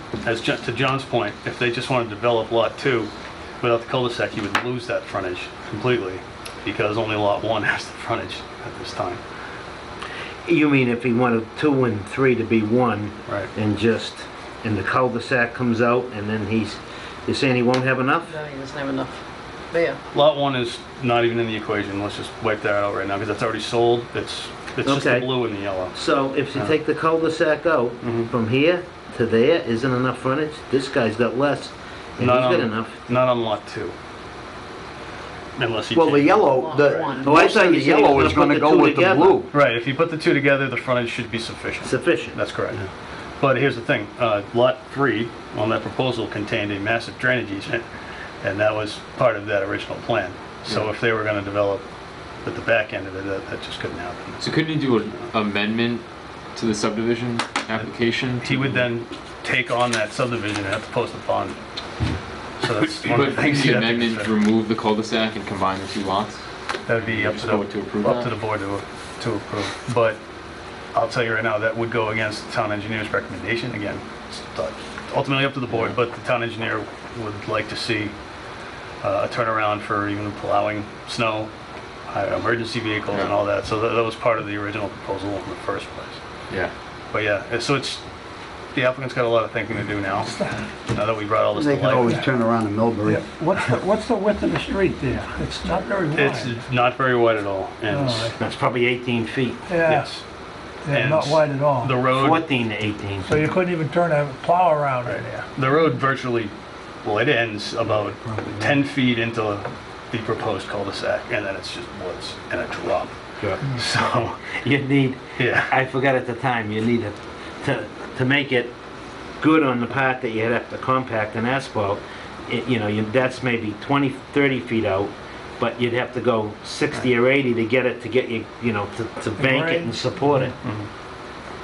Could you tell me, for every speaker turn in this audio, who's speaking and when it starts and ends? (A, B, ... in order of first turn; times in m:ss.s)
0:00.2-0:03.1 A
0:03.6-0:09.2 A
0:10.4-0:18.4 B
0:18.3-0:19.2 C
0:19.7-0:20.0 C
0:20.1-0:26.0 A
0:24.8-0:25.3 B
0:25.9-0:33.0 B
0:28.0-0:28.3 A
0:32.2-0:34.0 A
0:35.6-0:36.6 A
0:35.9-0:39.5 D
0:36.3-0:37.4 C
0:37.2-0:39.4 B
0:39.5-0:42.8 A
0:41.8-0:42.4 B
0:43.4-0:47.9 A
0:48.4-0:51.8 A
0:52.4-0:54.4 A
0:54.4-0:58.8 E
0:57.8-1:01.6 A
1:02.6-1:04.3 A
1:03.1-1:06.4 E
1:06.9-1:10.2 A
1:07.0-1:08.3 E
1:11.0-1:18.1 A
1:19.0-1:21.5 A
1:22.1-1:26.2 A
1:27.1-1:28.0 A
1:28.7-1:32.2 A
1:31.5-1:33.6 D
1:33.1-1:36.6 F
1:36.1-1:38.4 A
1:37.9-1:38.4 F
1:38.4-1:39.6 B
1:39.7-1:40.2 F
1:39.8-1:40.2 A
1:40.9-1:42.0 F
1:40.9-1:42.5 A
1:42.1-1:43.3 B
1:43.2-1:45.4 F
1:45.0-1:46.5 A
1:47.0-1:54.4 A
1:53.4-1:58.7 B
1:55.4-1:55.7 A
1:59.4-2:10.5 B
2:09.4-2:10.0 F
2:10.6-2:10.9 A